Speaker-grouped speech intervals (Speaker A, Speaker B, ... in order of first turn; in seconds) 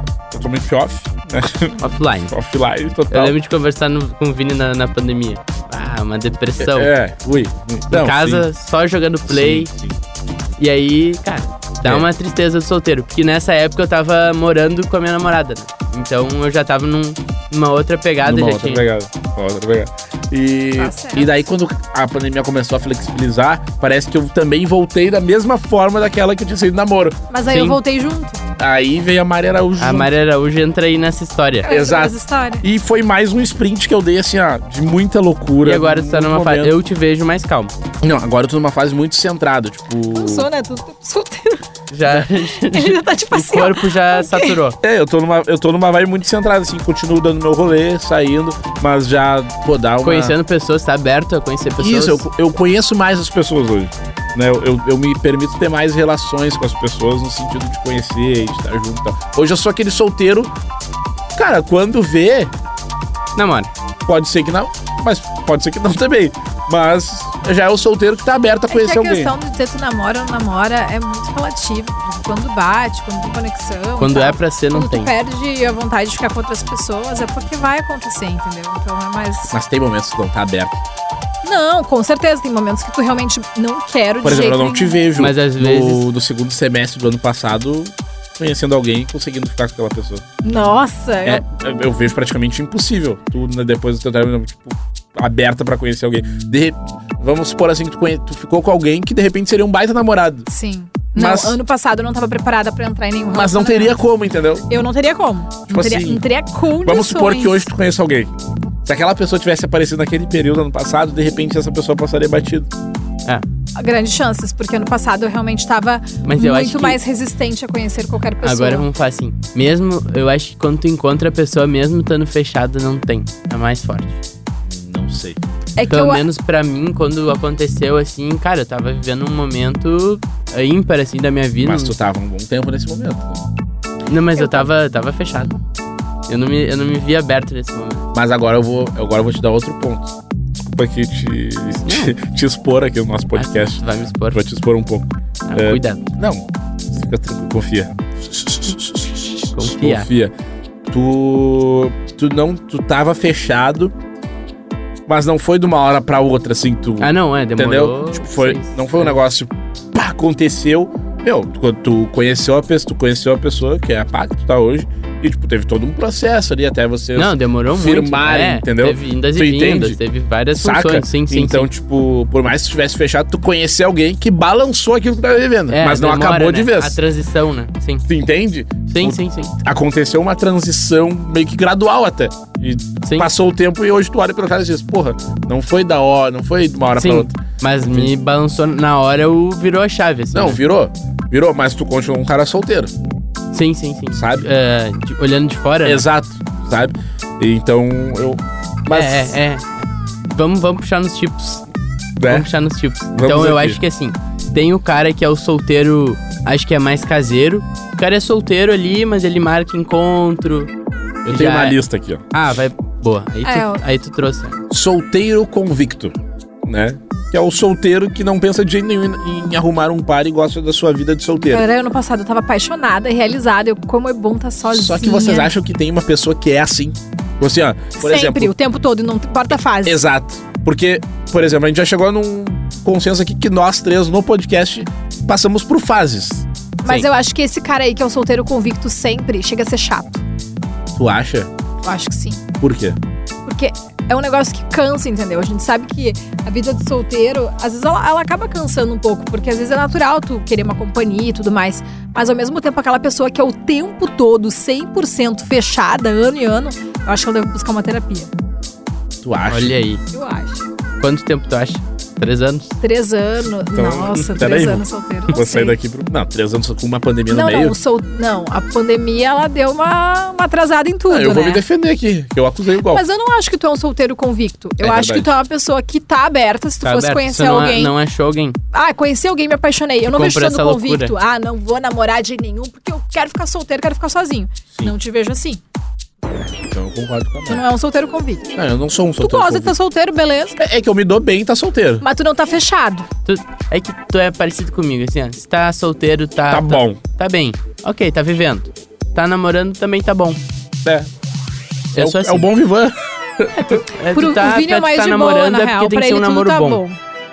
Speaker A: 0.3-3.4, 6.6-8.4, 9.3-10.0, 18.2-27.2, 28.6-30.1, 31.6-36.7, 38.0-40.5, 44.8-50.4, 51.8-60.5, 61.3-62.5, 64.0-69.3, 79.5-80.8, 84.2-90.2, 91.2-100.5, 101.1-101.6, 103.3-104.7, 105.7-106.2, 106.8-108.3, 108.8-112.7, 124.7-125.4, 131.6-133.4, 138.1-150.3, 150.9-153.9, 155.1-170.0, 170.5-177.0, 178.1-188.1, 190.3-192.9, 194.1-194.4, 195.8-199.3, 202.2-202.5, 203.1-203.8, 211.2-212.3, 214.7-221.6, 224.7-228.5, 229.8-236.5, 240.9-241.5, 242.6-243.0, 259.2-259.8, 263.7-267.8, 271.1-273.0, 274.8-275.3, 286.3-287.6, 288.5-289.7, 290.6-292.0, 296.5-297.0, 300.8-301.1, 301.9-303.8
Speaker B: 1.8-2.3, 3.1-6.9, 7.9-9.7, 10.6-18.8, 27.5-27.8, 29.8-31.7, 35.6-37.7, 41.9-44.8, 50.0-52.2, 63.4-63.7, 74.0-75.1, 85.2-86.1, 116.2-117.0, 118.4-124.2, 125.9-131.9, 134.1-135.5, 136.3-138.1, 141.8-142.2, 143.3-144.4, 145.4-146.0, 149.5-150.1, 157.0-159.2, 167.2-171.7, 175.7-178.1, 178.9-179.5, 183.0-183.3, 186.9-190.6, 193.5-196.0, 198.9-201.6, 202.2-210.7, 211.3-211.8, 212.3-214.6, 259.5-260.0, 261.0-262.7, 276.8-278.6, 280.1-281.1, 293.2-300.4, 301.9-302.5, 303.7-306.8
Speaker C: 20.8-21.4, 27.3-28.4, 31.6-32.6, 40.1-41.6, 42.5-44.5, 68.7-79.5, 81.4-85.0, 90.4-91.4, 100.5-104.0, 104.7-107.7, 113.8-118.8, 125.8-126.2, 134.3-134.7, 213.4-213.8, 221.5-225.5, 228.0-230.0, 236.8-240.2, 241.8-242.4, 243.4-258.3, 260.1-260.6, 262.8-265.7, 267.3-271.6, 272.9-277.9, 278.7-285.6, 287.5-288.5, 289.2-290.6, 292.0-293.1, 304.1-307.0